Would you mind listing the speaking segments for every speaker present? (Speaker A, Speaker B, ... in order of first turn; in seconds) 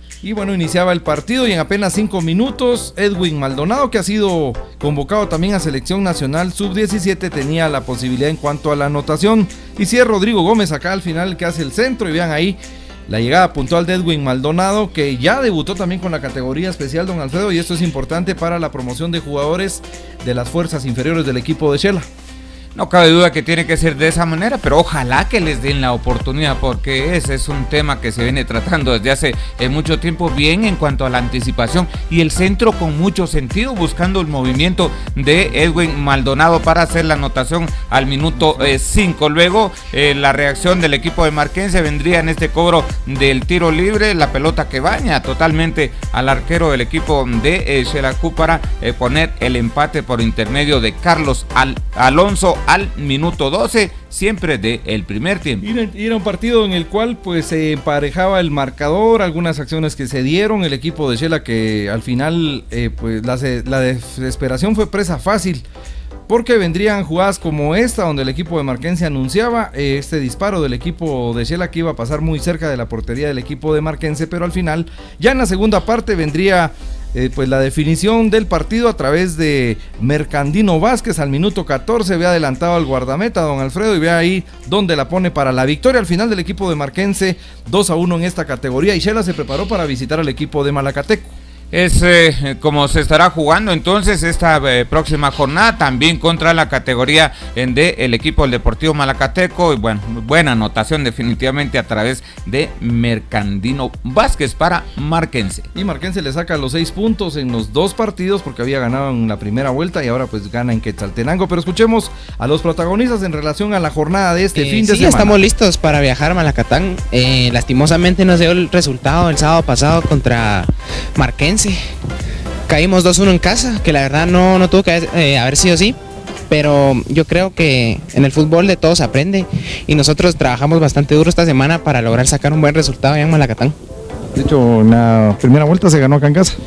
Speaker A: 0.2-22.1, 55.6-65.6, 66.3-91.3, 105.7-115.4, 134.3-136.6
Speaker B: 22.7-55.6, 91.7-105.7
Speaker C: 114.5-121.8, 122.7-126.0, 126.5-133.8